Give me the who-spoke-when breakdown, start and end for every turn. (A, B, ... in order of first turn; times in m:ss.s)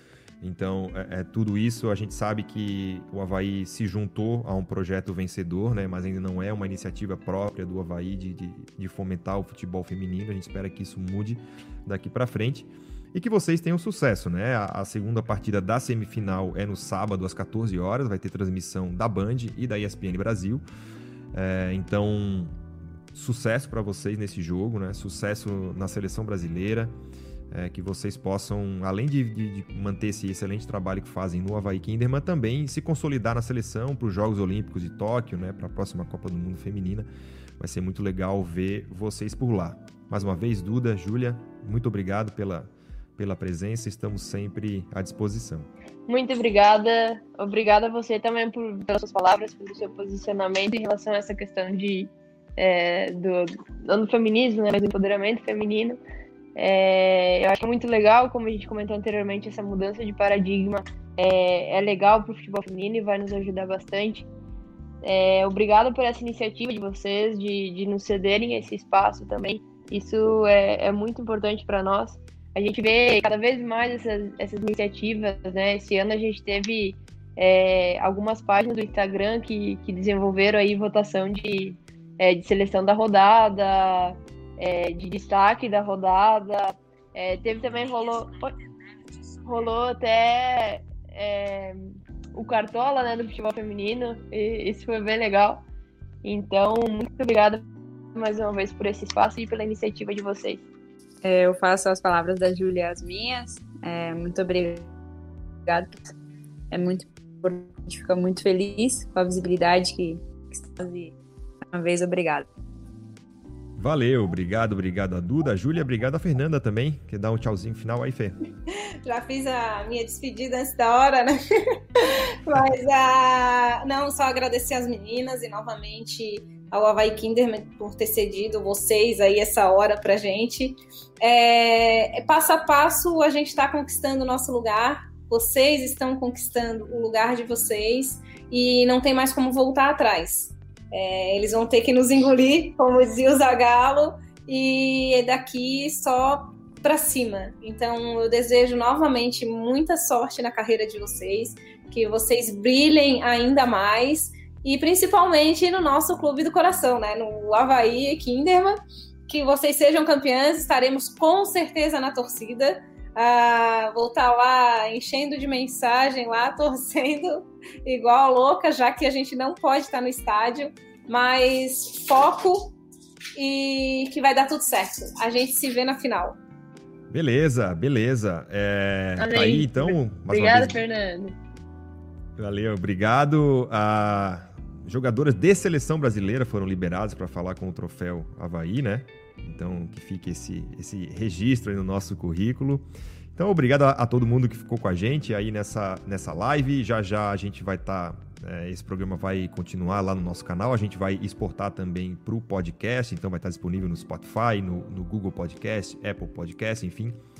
0:00.4-0:20.6 A
0:21.3-0:22.6 A
0:23.1-0:26.9 A
0:27.5-0:37.1 A
0:37.6-0:45.7 A
0:46.1-0:56.0 B
0:56.6-1:04.3 B
1:05.0-1:28.5 B
1:29.4-1:35.6 B
1:36.2-1:40.6 B
1:41.2-1:44.9 C
1:45.6-1:46.0 C
1:46.7-1:51.1 C
1:51.7-1:52.5 C
1:53.8-1:58.4 A
1:59.0-2:01.4 D
2:02.0-2:52.7 D
2:53.4-2:56.4 D
2:57.1-3:00.8 A
2:59.2-3:01.4 B
3:02.4-3:27.2 A